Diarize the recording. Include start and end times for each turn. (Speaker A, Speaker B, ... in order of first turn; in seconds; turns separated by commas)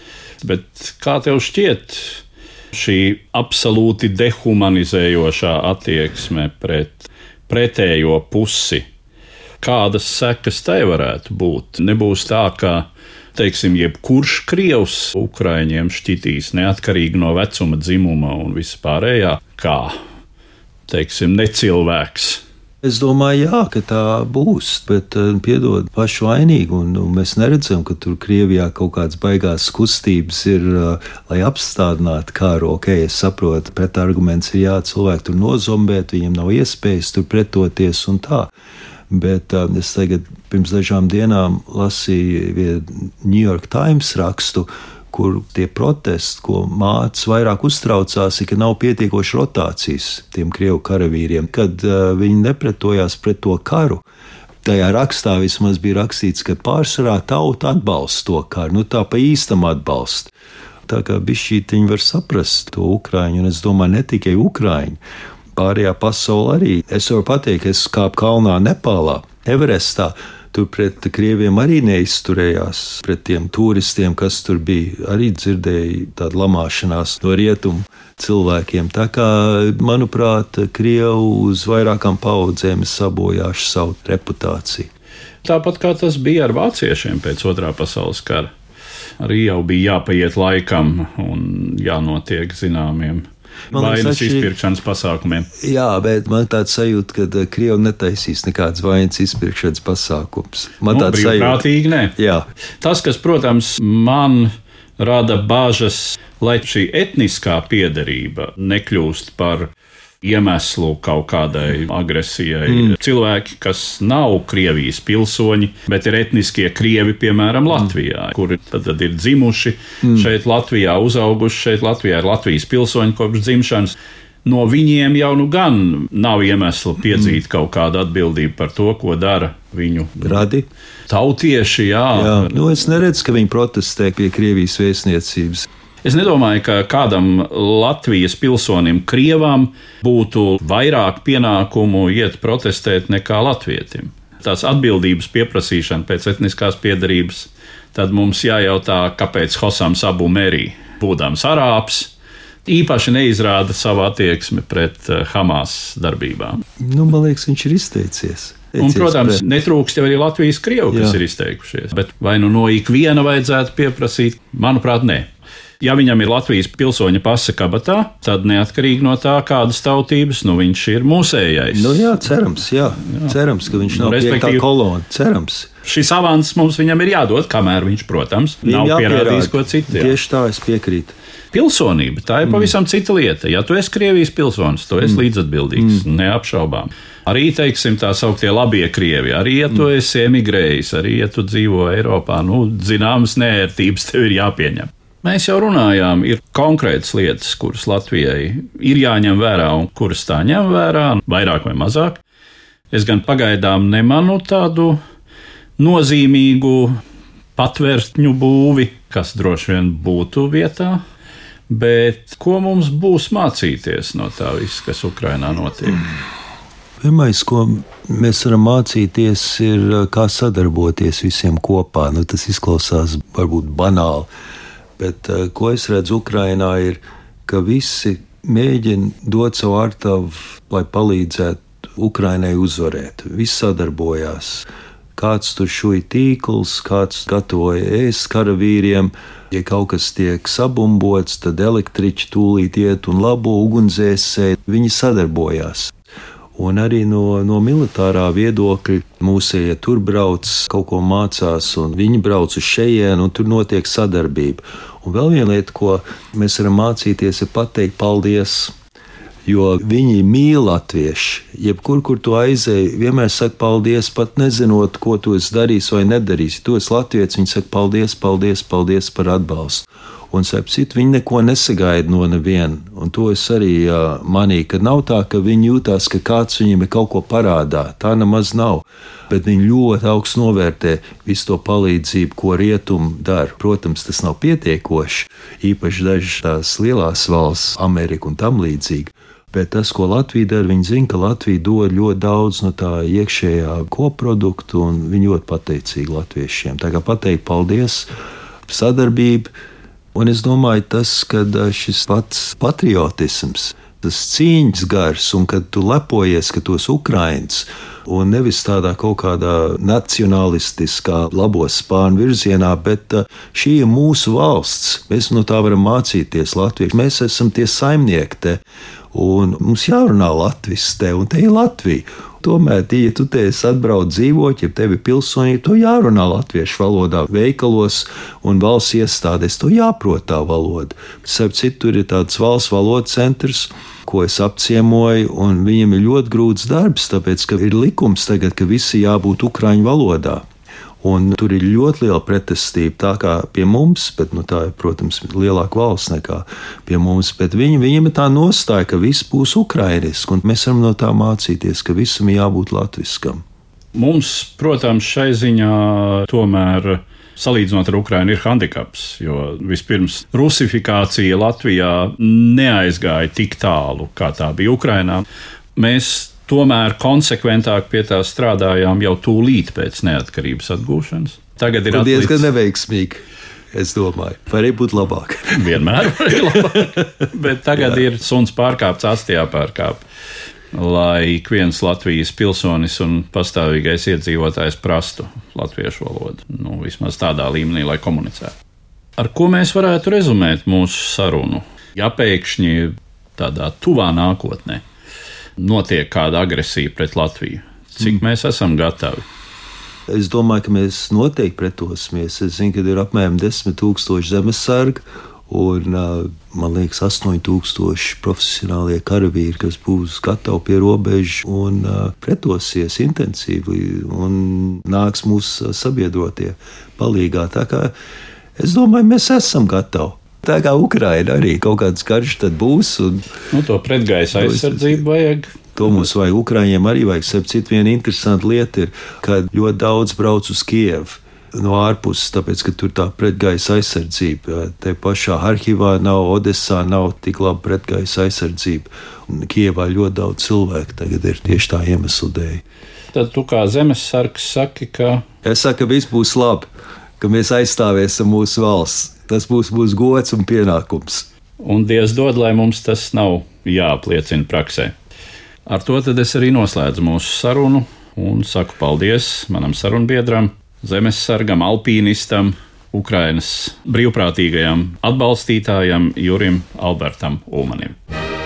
Speaker A: 0.4-2.2, Speaker A: 2.7-8.8, Speaker A: 9.6-19.9, Speaker A: 20.9-22.4, Speaker B: 22.8-38.5, Speaker B: 39.1-54.0, Speaker B: 54.6-60.3, Speaker B: 60.9-65.0, Speaker B: 65.5-84.9, Speaker A: 85.4-88.5, Speaker A: 89.2-95.5, Speaker B: 93.7-94.5, Speaker B: 95.5-101.6, Speaker A: 100.9-102.1, Speaker B: 102.2-102.4, Speaker A: 102.8-109.7, Speaker A: 110.2-130.4, Speaker B: 130.2-130.7, Speaker A: 131.1-132.5, Speaker B: 132.1-135.7, Speaker A: 136.0-152.1, Speaker A: 152.7-156.6, Speaker B: 156.8-159.4, Speaker A: 158.8-172.1, Speaker B: 160.9-161.2, Speaker B: 171.7-175.7, Speaker A: 173.9-174.6, Speaker A: 175.8-180.1, Speaker B: 178.6-181.1, Speaker A: 181.5-202.2, Speaker B: 182.4-182.7, Speaker A: 202.9-205.0, Speaker A: 205.8-207.0, Speaker A: 207.6-211.0, Speaker A: 211.7-216.1, Speaker B: 217.0-224.3, Speaker B: 225.0-245.9, Speaker B: 246.6-258.7, Speaker B: 259.4-298.1, Speaker B: 298.7-299.5, Speaker B: 300.1-340.4, Speaker B: 341.0-353.4, Speaker A: 353.9-365.2, Speaker A: 365.8-372.5, Speaker B: 371.9-377.0, Speaker A: 375.5-380.0, Speaker A: 380.7-388.5, Speaker A: 389.2-394.8, Speaker A: 395.6-399.2, Speaker B: 400.1-417.9, Speaker B: 418.6-423.2, Speaker A: 423.5-425.6, Speaker B: 424.3-425.0, Speaker B: 425.8-442.6, Speaker A: 443.1-445.2, Speaker B: 445.4-446.7, Speaker B: 447.2-451.3, Speaker A: 451.6-454.9, Speaker A: 455.7-468.0